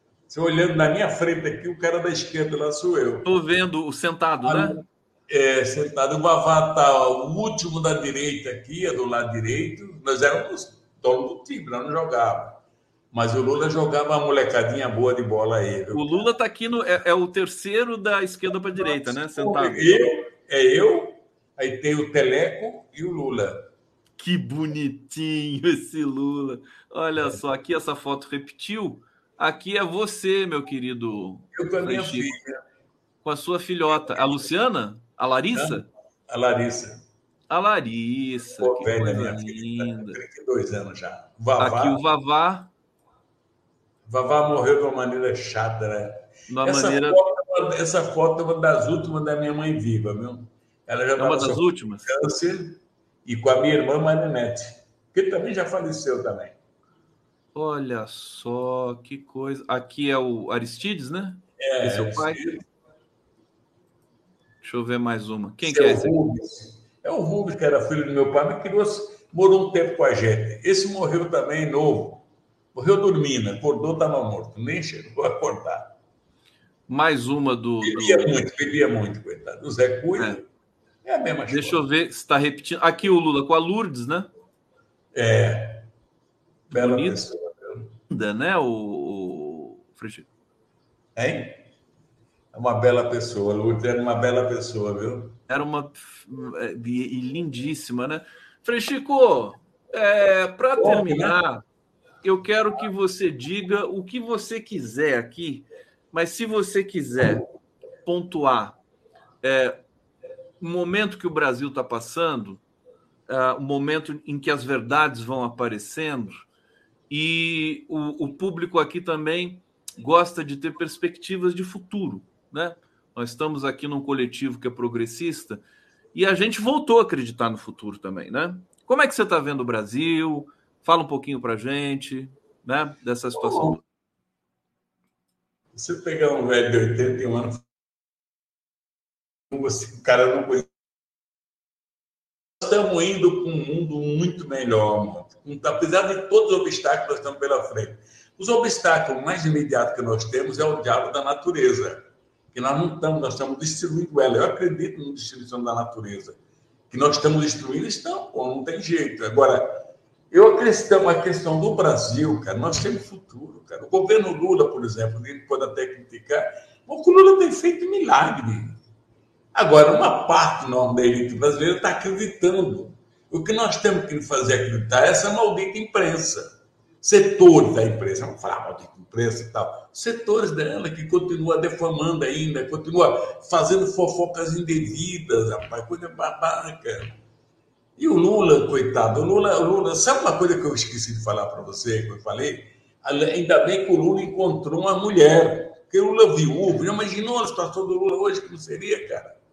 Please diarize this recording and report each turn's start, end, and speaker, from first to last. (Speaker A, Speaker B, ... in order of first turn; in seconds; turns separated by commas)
Speaker A: 0.3-3.3, Speaker B: 3.2-4.8, Speaker A: 4.5-12.6, Speaker A: 13.1-16.3, Speaker B: 15.9-20.1, Speaker A: 18.8-23.7, Speaker B: 24.2-32.3, Speaker A: 31.6-32.6, Speaker B: 33.2-35.9, Speaker A: 35.5-37.0, Speaker B: 37.5-40.2, Speaker A: 38.6-42.0, Speaker B: 41.6-42.7, Speaker A: 44.1-56.6, Speaker B: 46.5-47.2, Speaker B: 51.2-52.1, Speaker B: 57.5-62.4, Speaker A: 61.6-62.6, Speaker B: 64.6-66.2, Speaker A: 65.6-75.9, Speaker B: 76.9-78.3, Speaker A: 77.8-80.4, Speaker A: 81.0-81.8, Speaker B: 81.5-84.3, Speaker A: 85.1-85.9, Speaker B: 86.7-87.2, Speaker A: 86.7-87.9, Speaker B: 88.1-90.3, Speaker A: 91.2-91.6, Speaker A: 92.5-95.4, Speaker B: 95.5-101.6, Speaker A: 100.8-101.4, Speaker B: 102.2-107.5, Speaker B: 108.0-108.8, Speaker B: 109.4-109.8, Speaker B: 110.6-112.6, Speaker B: 113.3-116.5, Speaker B: 117.1-125.6, Speaker B: 126.2-133.8, Speaker A: 133.4-133.8, Speaker A: 135.7-137.6, Speaker A: 139.5-140.7, Speaker A: 142.6-156.4, Speaker A: 156.9-168.8, Speaker A: 169.5-176.5, Speaker A: 177.0-187.1, Speaker A: 188.0-199.3